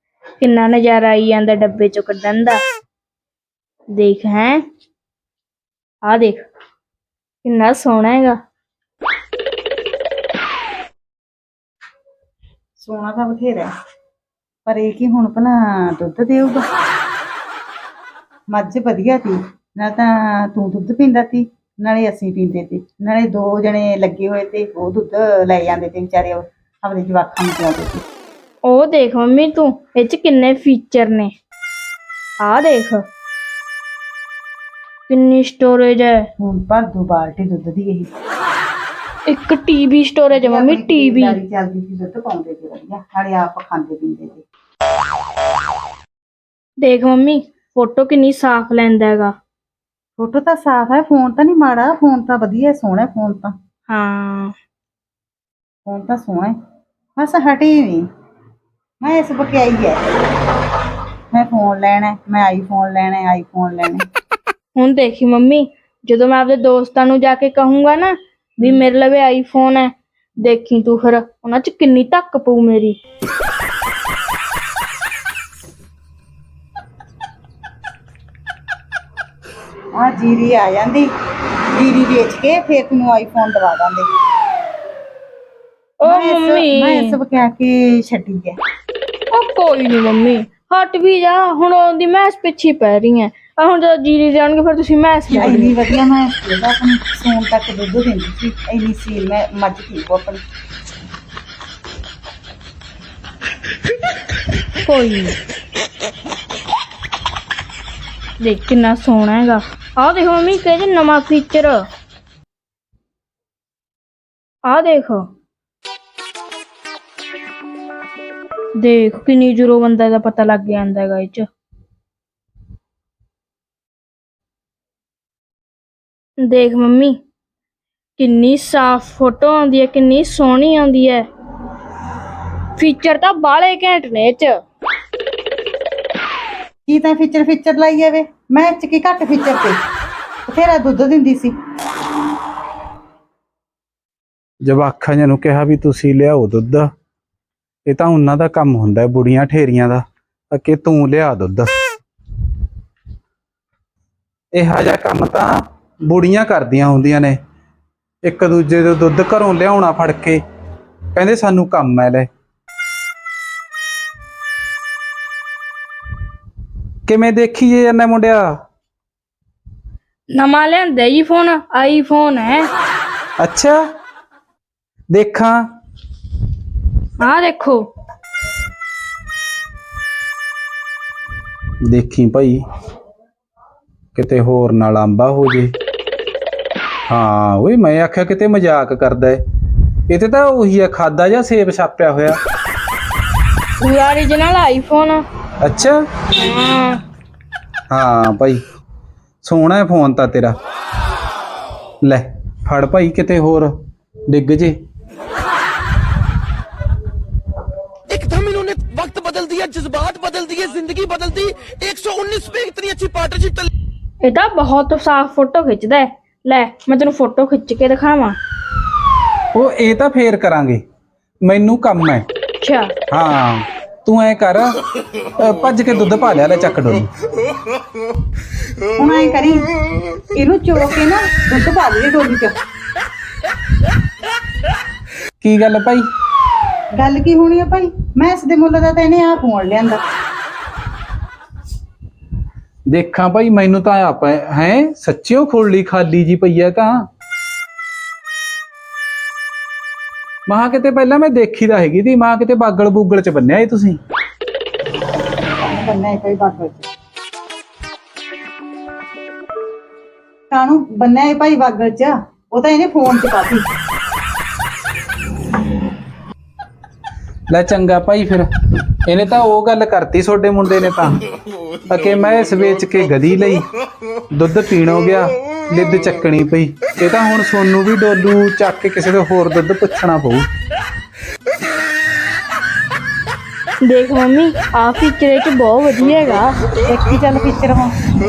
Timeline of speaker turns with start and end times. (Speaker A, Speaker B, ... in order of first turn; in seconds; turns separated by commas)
Speaker A: 0.4-2.6, Speaker A: 3.9-4.6, Speaker A: 6.0-6.4, Speaker A: 7.4-8.4, Speaker B: 12.8-13.7, Speaker B: 14.7-16.6, Speaker B: 18.5-28.0, Speaker A: 28.6-31.3, Speaker A: 32.4-33.0, Speaker A: 35.1-36.2, Speaker B: 36.4-38.1, Speaker A: 39.3-41.4, Speaker B: 40.3-44.4, Speaker A: 46.8-49.3, Speaker B: 50.2-53.5, Speaker A: 53.9-54.5, Speaker B: 55.8-56.5, Speaker B: 57.2-58.1, Speaker B: 59.0-60.0, Speaker B: 61.3-64.0, Speaker A: 64.7-73.0, Speaker B: 79.9-81.1, Speaker B: 81.8-84.1, Speaker A: 86.0-87.2, Speaker B: 86.0-88.6, Speaker A: 89.3-95.7, Speaker B: 95.3-100.4, Speaker A: 104.8-105.3, Speaker A: 108.4-111.8, Speaker A: 114.7-115.2, Speaker A: 118.8-121.5, Speaker A: 126.4-127.2, Speaker A: 128.2-131.2, Speaker A: 132.8-134.6, Speaker B: 136.9-139.8, Speaker B: 140.5-141.5, Speaker C: 144.6-146.9, Speaker C: 147.8-151.7, Speaker C: 154.5-157.4, Speaker C: 158.2-160.4, Speaker C: 161.1-162.3, Speaker C: 167.1-168.5, Speaker A: 170.3-172.7, Speaker C: 173.4-173.8, Speaker C: 175.1-175.6, Speaker A: 177.2-177.9, Speaker C: 181.8-182.6, Speaker C: 184.1-185.7, Speaker C: 187.1-189.4, Speaker C: 190.1-192.4, Speaker A: 193.8-195.2, Speaker C: 195.6-196.0, Speaker A: 196.3-197.0, Speaker C: 197.9-198.6, Speaker C: 199.4-200.6, Speaker C: 202.0-203.7, Speaker C: 204.3-204.8, Speaker D: 208.1-213.7, Speaker A: 214.2-218.4, Speaker C: 219.5-220.8, Speaker C: 221.4-222.2, Speaker A: 222.6-222.9, Speaker C: 223.1-224.8, Speaker C: 225.3-227.1, Speaker B: 228.9-229.7, Speaker B: 230.3-232.5, Speaker C: 235.4-236.1, Speaker B: 236.9-240.0, Speaker C: 242.9-247.1, Speaker C: 250.5-254.0, Speaker B: 255.6-256.9, Speaker B: 260.5-263.7, Speaker C: 267.5-268.5, Speaker C: 269.1-271.2, Speaker C: 271.9-273.6, Speaker C: 274.3-280.5, Speaker A: 283.8-286.5, Speaker B: 286.9-287.9